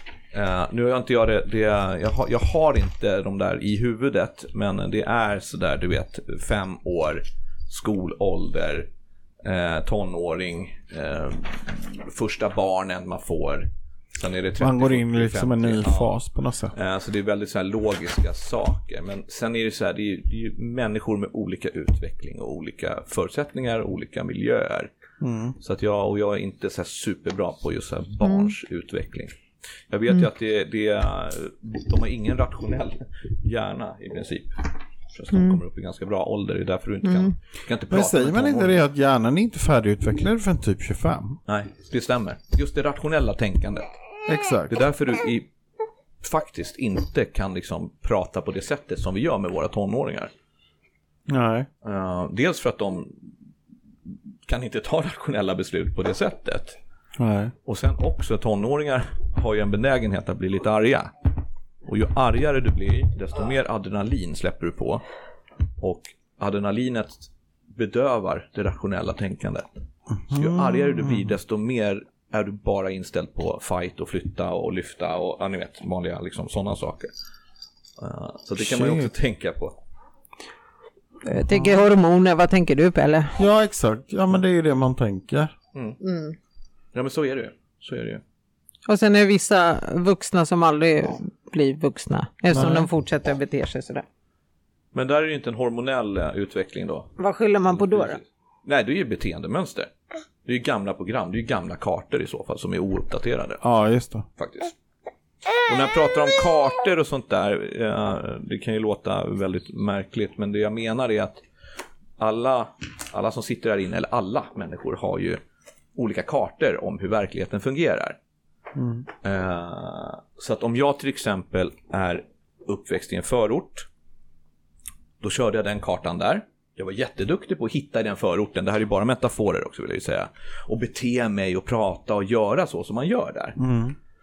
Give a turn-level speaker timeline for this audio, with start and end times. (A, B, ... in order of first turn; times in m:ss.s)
0:00.3-0:08.9 A
0:09.4-0:16.1 A
0:14.6-0:16.7 B
0:16.7-0:24.9 A
0:25.2-0:25.6 B
0:25.6-0:29.3 A
0:28.2-0:28.5 C
0:29.9-0:38.7 A
0:37.0-0:37.3 C
0:37.9-0:41.4 B
0:41.5-0:43.9 A
0:44.3-0:44.7 B
0:44.7-0:45.5 A
0:46.2-0:50.3 A
0:51.3-0:51.7 B
0:51.8-0:53.2 A
0:54.5-0:56.8 A
0:57.2-0:57.5 B
0:57.6-1:01.1 A
1:01.8-1:05.0 A
1:05.8-1:09.7 A
1:10.1-1:11.3 B
1:10.3-1:17.1 A
1:18.0-1:19.8 A
1:18.6-1:19.1 B
1:21.2-1:23.4 C
1:23.4-1:25.5 B
1:26.0-1:26.4 C
1:26.9-1:28.2 A
1:28.9-1:34.0 C
1:32.5-1:32.9 B
1:34.9-1:37.1 A
1:37.2-1:38.2 C
1:37.7-1:39.9 A
1:40.4-1:43.6 A
1:43.6-1:44.3 B
1:44.4-1:44.7 A
1:45.6-1:51.4 A
1:52.2-1:55.4 A
1:56.0-1:58.2 A
1:58.8-1:59.1 B
1:59.2-2:03.9 A
2:05.2-2:13.6 A
2:13.6-2:14.0 B